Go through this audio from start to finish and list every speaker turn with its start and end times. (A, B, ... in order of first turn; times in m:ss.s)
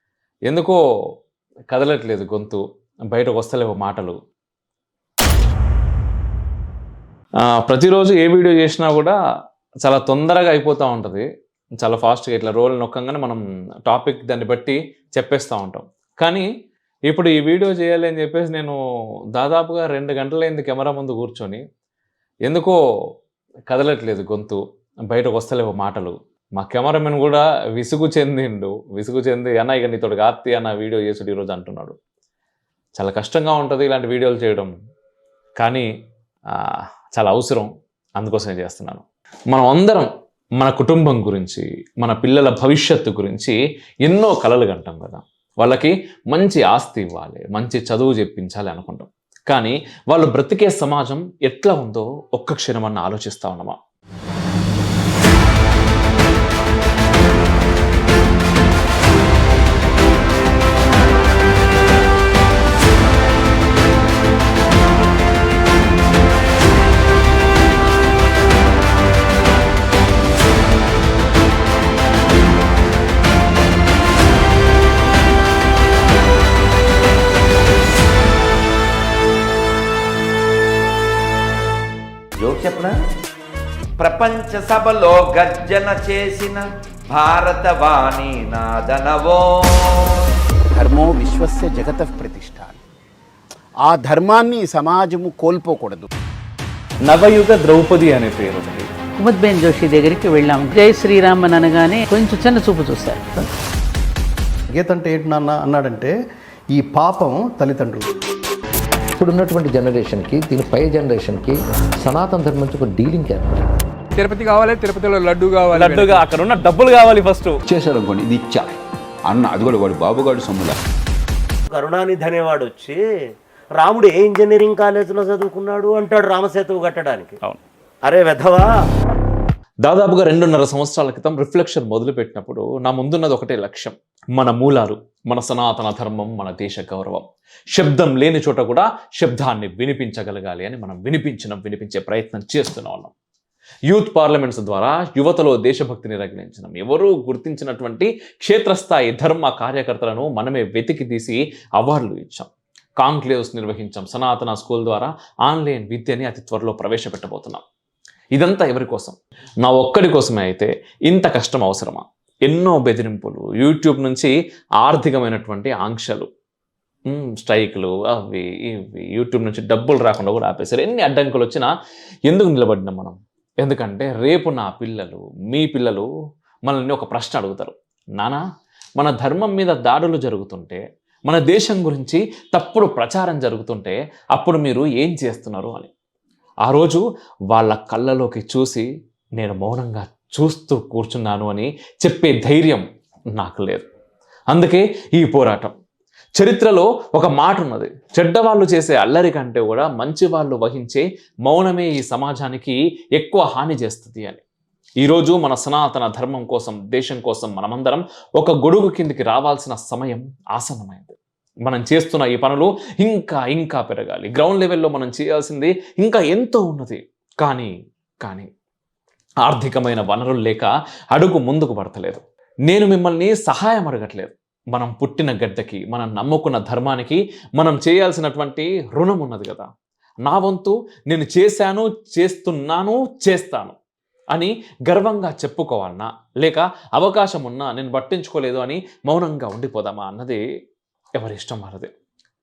0:00.5-0:00.8 A
0:01.7-0:04.2 A
0:07.4-0:09.2 A
0:09.8-0:11.2 A
0:11.8-0:16.5 A
0:17.1-0:18.8 A
0:19.4-0:21.6 A
0:22.5-0:22.8 A
0:23.7-0:32.0 A
0:33.0-0:34.7 A
0:35.6-0:35.9 A
0:36.6-0:40.1 A
0:40.6-0:43.6 A
0:44.1-0:53.8 A
1:22.6-1:22.9 B
1:24.0-1:30.3 B
1:30.7-1:32.8 C
1:33.8-1:36.1 C
1:37.1-1:38.9 A
1:39.2-1:43.5 D
1:44.8-1:46.1 E
1:46.8-1:48.1 E
1:49.2-1:53.6 F
1:54.2-1:56.2 G
1:55.7-1:57.5 A
1:57.7-1:58.7 H
1:59.3-2:00.8 H
2:01.7-2:03.1 I
2:03.8-2:07.4 I
2:08.0-2:08.8 I
2:09.8-2:23.1 A
2:23.9-2:37.6 A
2:38.4-2:46.3 A
2:47.1-2:51.7 A
2:52.3-2:56.1 A
2:56.7-2:58.4 A
2:59.0-3:05.9 A
3:06.7-3:08.9 A
3:09.4-3:12.8 A
3:13.4-3:13.9 A
3:14.5-3:15.7 A
3:16.4-3:24.4 A
3:25.0-3:31.2 A
3:31.7-3:37.7 A
3:38.2-3:38.5 A
3:39.5-3:49.7 A
3:50.2-3:53.8 A
3:54.3-4:00.4 A
4:01.2-4:01.9 A